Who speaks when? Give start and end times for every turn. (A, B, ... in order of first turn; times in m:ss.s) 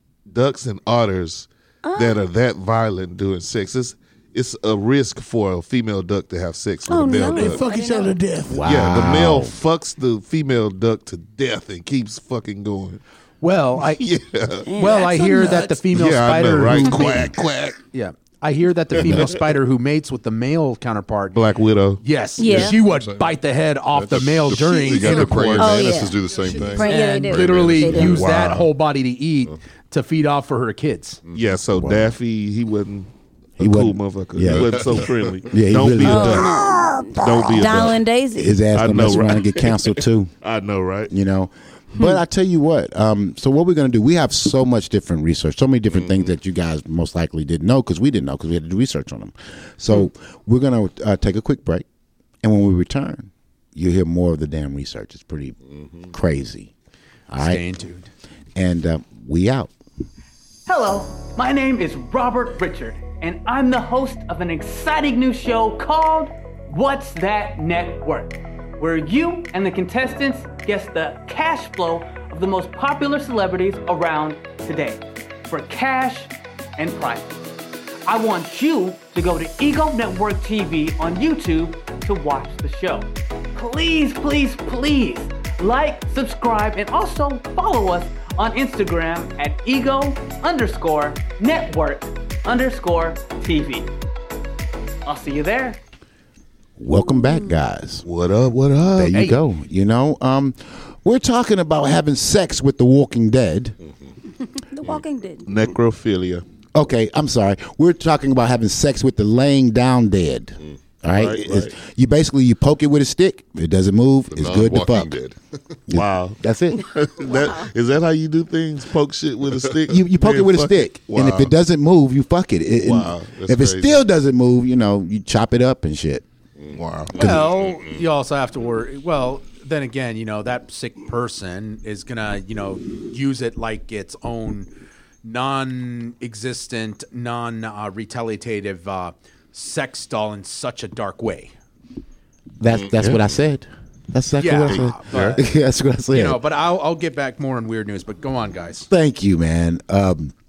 0:00.3-0:07.6 A
0:01.8-0:02.2 B
0:06.9-0:08.1 B
0:07.1-0:08.6 C
0:08.5-0:09.5 D
0:08.6-0:13.0 A
0:13.4-0:14.0 E
0:13.8-0:14.7 A
0:14.7-0:15.1 B
0:14.8-0:17.3 E
0:14.8-0:15.8 C
0:15.9-0:17.8 A
0:17.9-0:21.4 E
0:19.0-0:19.3 D
0:21.3-0:22.0 A
0:22.0-0:25.9 E
0:22.4-0:22.8 B
0:22.5-0:28.2 F
0:24.8-0:25.6 C
0:25.6-0:28.2 B
0:26.2-0:26.8 C
0:26.8-0:31.2 E
0:27.9-0:28.7 A
0:31.3-0:38.0 A
0:31.8-0:32.1 D
0:33.6-0:36.5 D
0:34.5-0:35.5 F
0:36.0-0:38.6 B
0:38.3-0:40.3 D
0:38.7-0:41.1 A
0:41.1-0:51.8 D
0:45.9-0:46.3 F
0:52.4-0:55.6 D
0:55.7-0:56.1 F
0:56.1-0:56.7 D
0:57.3-0:57.6 D
0:57.4-0:58.1 E
0:58.5-0:59.7 D
1:00.6-1:17.4 G
1:18.1-1:33.9 G
1:35.0-1:35.8 G
1:36.8-1:38.0 D
1:38.0-1:39.4 A
1:38.9-1:43.8 D
1:43.8-1:44.1 F
1:44.7-1:45.5 B
1:45.4-1:46.4 A
1:46.7-1:55.2 D
1:51.1-1:51.7 A
1:54.3-1:55.8 F
1:55.9-1:56.9 D
1:55.9-2:01.5 A
1:57.3-1:57.6 B
1:59.9-2:06.2 D
2:02.8-2:04.0 A
2:06.6-2:08.0 F
2:06.7-2:07.1 A
2:07.1-2:14.7 E
2:07.2-2:07.5 D
2:15.2-2:21.5 E
2:22.6-2:26.4 D
2:22.7-2:23.4 F
2:24.4-2:25.5 E
2:24.7-2:25.4 A
2:26.1-2:28.9 E
2:28.9-2:30.3 D